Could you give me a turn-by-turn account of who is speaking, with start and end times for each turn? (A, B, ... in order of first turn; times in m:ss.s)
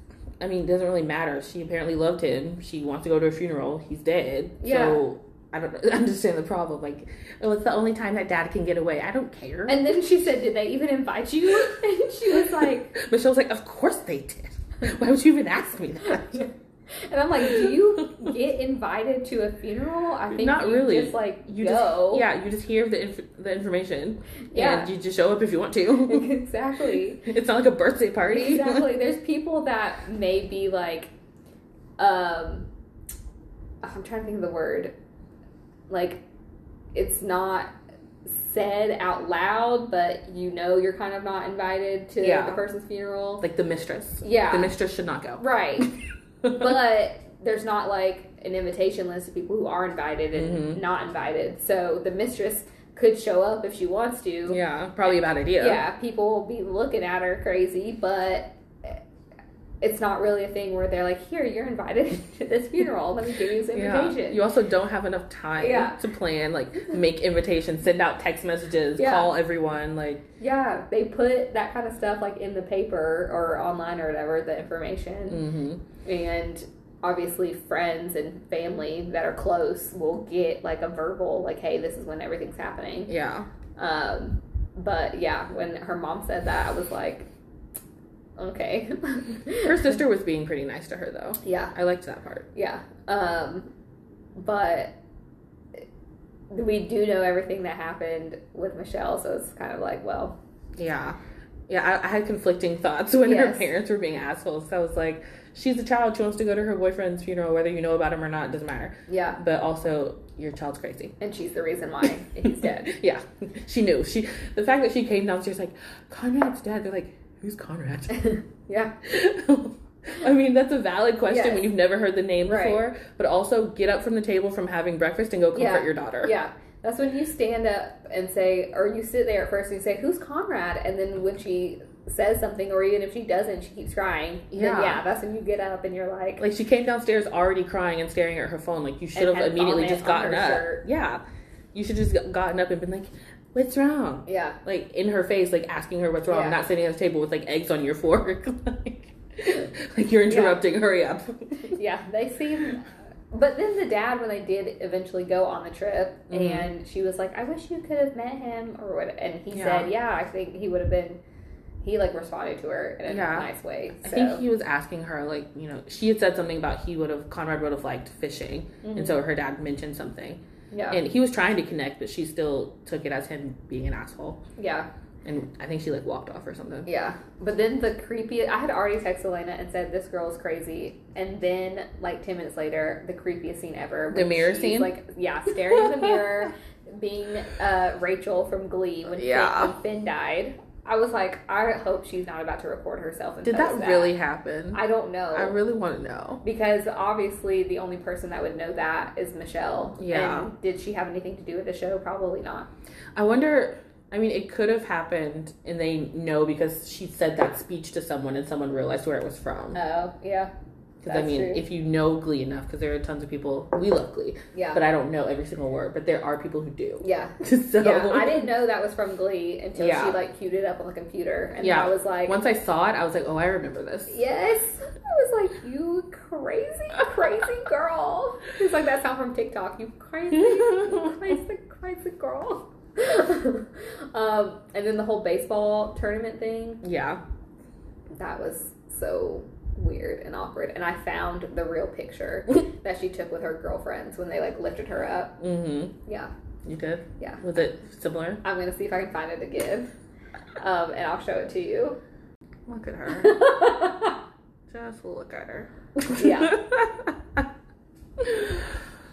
0:00.4-0:09.9 A
0:04.6-0:05.0 B
0:09.7-0:12.9 B
0:12.6-0:16.5 A
0:16.3-0:22.2 B
0:17.4-0:18.3 A
0:20.3-0:26.3 A
0:24.5-0:24.9 B
0:26.0-0:27.3 B
0:27.2-0:28.9 A
0:28.3-0:31.1 B
0:32.0-0:32.7 B
0:33.8-0:34.9 B
0:35.9-0:36.2 B
0:36.9-0:37.7 B
0:38.2-0:43.4 B
0:42.2-0:42.6 A
0:43.4-0:45.9 A
0:44.2-0:44.7 B
0:45.4-0:54.6 B
0:50.4-0:50.8 A
0:54.5-0:55.8 A
0:55.6-0:59.0 B
0:59.8-1:04.4 B
1:03.7-1:10.2 A
1:05.6-1:06.0 B
1:09.0-1:09.3 B
1:10.4-1:15.4 B
1:15.3-1:15.8 A
1:16.0-1:23.1 B
1:23.1-1:23.5 A
1:23.8-1:27.3 B
1:28.4-1:29.9 B
1:29.6-1:32.5 A
1:31.4-1:31.7 B
1:32.5-1:33.7 B
1:34.4-1:34.9 B
1:36.5-1:40.4 B
1:40.8-1:41.2 A
1:41.7-1:51.1 A
1:43.2-1:43.7 B
1:49.1-1:49.4 B
1:51.2-1:52.9 B
1:52.4-1:58.2 A
1:58.2-1:59.0 B
1:59.0-2:06.4 A
2:01.3-2:01.7 B
2:02.4-2:02.8 B
2:05.5-2:16.4 B
2:14.5-2:15.0 A
2:16.4-2:21.2 A
2:19.1-2:20.8 B
2:21.7-2:31.7 A
2:24.3-2:24.6 B
2:26.3-2:26.6 B
2:30.3-2:30.6 B
2:31.6-2:41.2 B
2:36.3-2:36.7 A
2:39.5-2:39.9 A
2:41.8-2:44.4 B
2:43.1-2:43.5 A
2:44.0-2:54.4 A
2:48.8-2:49.2 B
2:50.7-2:51.0 B
2:54.6-2:54.9 B
2:55.2-2:56.9 A
2:56.9-3:14.1 B
3:04.1-3:04.9 A
3:05.7-3:06.1 A
3:09.1-3:09.7 A
3:13.4-3:16.4 A
3:14.7-3:15.6 B
3:16.4-3:22.7 B
3:20.0-3:20.5 A
3:23.1-3:29.8 A
3:29.7-3:30.5 B
3:31.0-3:38.5 A
3:31.0-3:31.6 B
3:34.5-3:34.8 B
3:37.0-3:42.4 B
3:39.8-3:40.2 A
3:41.6-3:44.2 A
3:44.1-3:56.8 B
3:50.4-3:51.1 A
3:56.8-3:57.2 A
3:58.1-4:05.4 B
4:05.4-4:05.9 A
4:06.0-4:06.3 B
4:06.6-4:08.4 A
4:08.4-4:09.9 B
4:10.6-4:12.0 B
4:12.7-4:13.4 A
4:13.1-4:14.2 B
4:14.7-4:17.4 A
4:16.0-4:16.6 B
4:18.2-4:18.8 A